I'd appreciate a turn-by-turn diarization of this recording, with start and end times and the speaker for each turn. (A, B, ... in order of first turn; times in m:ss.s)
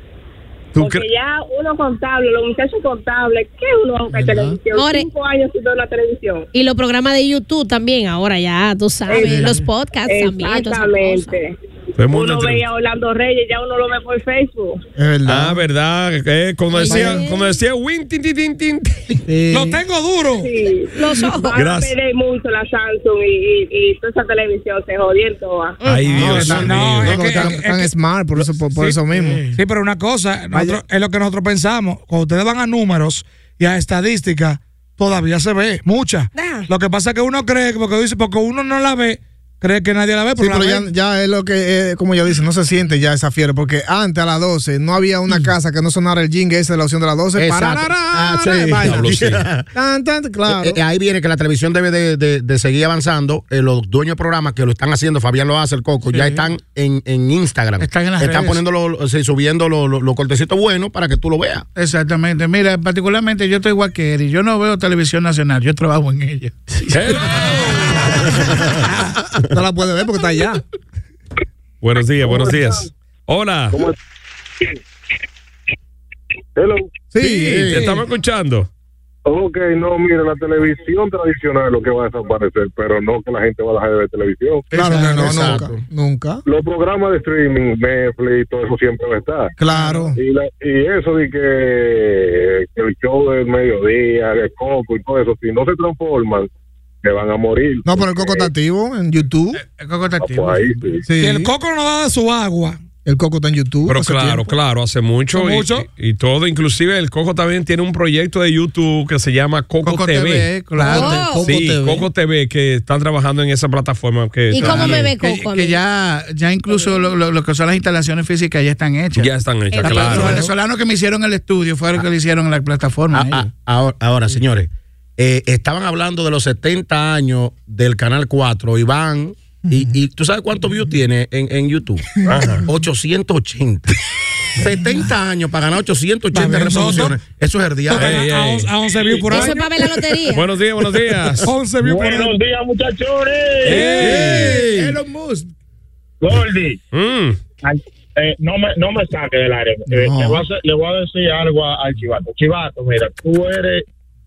0:00.7-0:01.0 A
0:00.8-0:06.5 B
0:04.1-0:04.6 C
0:04.7-0:05.1 D
0:06.5-0:11.3 D
0:09.1-0:09.5 B
0:09.2-0:09.6 C
0:10.1-0:11.6 B
0:12.0-0:12.6 A
0:12.1-0:14.8 B
0:15.0-0:15.6 E
0:15.2-0:19.2 A
0:16.7-0:17.4 D
0:19.3-0:19.8 E
0:19.5-0:20.5 F
0:20.4-0:25.8 B
0:20.9-0:21.5 D
0:21.6-0:21.9 A
0:25.8-0:27.2 A
0:26.1-0:29.4 E
0:26.2-0:27.6 G
0:26.4-0:27.9 F
0:29.1-0:29.6 C
0:29.5-0:40.9 F
0:30.5-0:30.8 E
0:36.3-0:36.7 D
0:40.4-0:50.8 E
0:47.4-0:49.6 G
0:48.8-0:49.4 A
0:50.5-1:01.6 G
0:56.1-0:56.4 C
0:57.8-0:58.6 C
1:01.8-1:07.2 C
1:06.9-1:08.4 A
1:09.5-1:10.6 E
1:11.8-1:13.9 A
1:16.6-1:16.9 H
1:17.1-1:17.8 E
1:17.2-1:18.7 A
1:17.5-1:17.8 G
1:17.8-1:18.0 F
1:19.2-1:24.7 H
1:24.7-1:26.4 E
1:24.8-1:25.6 C
1:24.8-1:25.8 G
1:26.4-1:29.5 H
1:29.6-1:30.2 E
1:29.7-1:30.1 C
1:30.1-1:36.5 H
1:37.0-1:38.5 H
1:37.8-1:39.6 E
1:39.5-1:41.0 C
1:40.2-1:41.0 H
1:41.0-1:41.5 E
1:41.2-1:42.8 F
1:43.0-1:44.5 E
1:43.9-1:55.1 A
1:45.3-1:45.9 F
1:49.8-1:52.1 C
1:50.9-1:51.5 D
1:54.5-1:55.8 D
1:54.6-2:03.5 C
1:59.1-2:00.5 A
1:59.7-2:00.4 D
2:03.1-2:13.9 G
2:12.2-2:12.6 A
2:14.5-2:18.2 G
2:16.3-2:17.2 F
2:17.9-2:19.8 F
2:17.9-2:19.4 A
2:19.3-2:20.5 D
2:20.3-2:21.5 A
2:21.4-2:22.3 F
2:21.8-2:23.9 I
2:23.6-2:24.7 A
2:23.7-2:25.5 C
2:24.0-2:24.9 G
2:26.2-2:26.8 I
2:26.9-2:27.4 A
2:27.6-2:33.8 I
2:29.9-2:30.3 E